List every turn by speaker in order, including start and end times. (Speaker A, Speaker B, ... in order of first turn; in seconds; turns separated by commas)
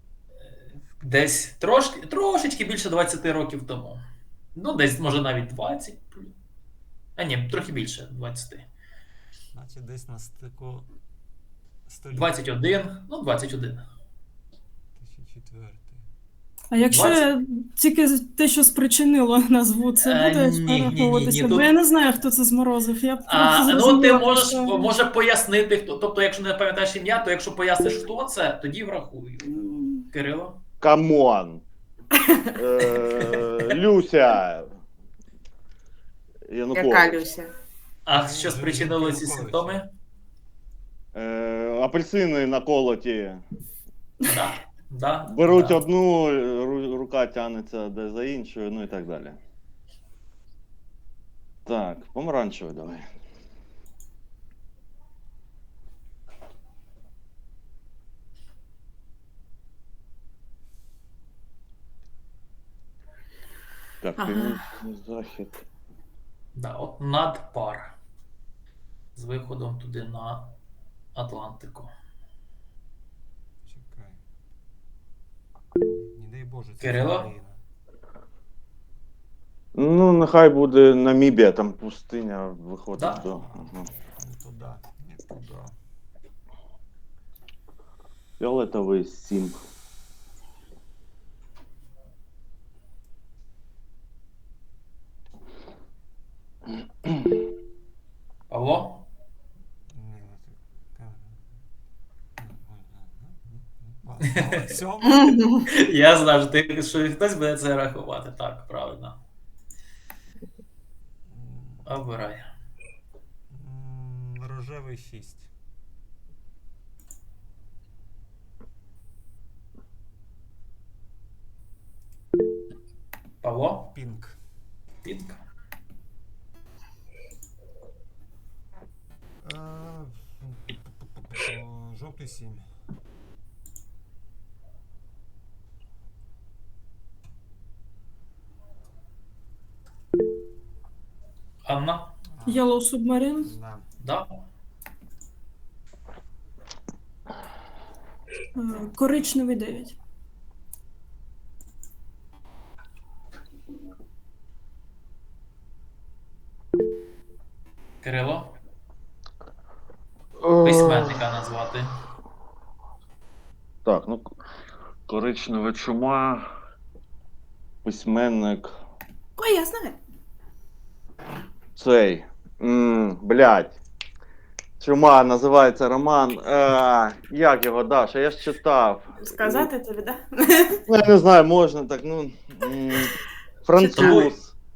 Speaker A: 1.0-4.0, Speaker A: 4.5-6.3, Speaker A: 7.2-8.7, Speaker B: 9.5-10.9, Speaker B: 11.9-12.4, Speaker A: 12.1-13.9, Speaker B: 14.9-16.0, Speaker C: 16.7-24.9, Speaker A: 16.9-17.3, Speaker A: 20.0-21.7, Speaker A: 23.2-30.6, Speaker D: 30.8-31.6, Speaker D: 32.6-34.7, Speaker D: 36.5-37.2, Speaker E: 36.7-37.5, Speaker A: 38.0-39.9, Speaker B: 38.1-39.8, Speaker D: 41.1-43.4, Speaker A: 44.3-45.8, Speaker D: 45.2-49.4, Speaker D: 51.6-53.0, Speaker D: 64.0-65.6, Speaker E: 64.2-64.6, Speaker A: 66.5-67.9, Speaker A: 69.1-70.5, Speaker A: 71.1-71.9, Speaker B: 73.6-74.2, Speaker B: 75.8-77.6, Speaker A: 76.8-77.3, Speaker D: 79.7-83.8, Speaker A: 83.0-83.2, Speaker B: 83.4-85.7, Speaker D: 88.4-89.6, Speaker A: 98.5-99.0, Speaker B: 99.9-101.4, Speaker B: 102.4-105.4, Speaker A: 104.3-104.7, Speaker E: 105.0-105.7, Speaker A: 105.7-109.2, Speaker B: 111.3-112.0, Speaker A: 111.8-112.5, Speaker B: 113.5-115.5, Speaker A: 123.4-123.9, Speaker B: 123.9-124.4, Speaker A: 125.0-125.4, Speaker B: 129.4-132.7, Speaker A: 141.6-142.1, Speaker B: 142.4-142.7, Speaker C: 142.4-143.5, Speaker B: 143.4-143.9, Speaker A: 144.0-144.3, Speaker C: 148.5-149.9, Speaker A: 158.0-158.5, Speaker D: 160.4-161.1, Speaker A: 160.6-161.9, Speaker D: 163.8-164.3, Speaker D: 165.1-166.4, Speaker D: 167.8-168.7, Speaker E: 169.4-170.0, Speaker D: 171.8-173.8, Speaker D: 174.8-179.7, Speaker E: 179.2-180.7, Speaker D: 180.9-183.1, Speaker D: 183.6-184.5, Speaker E: 183.7-184.2, Speaker A: 184.0-184.3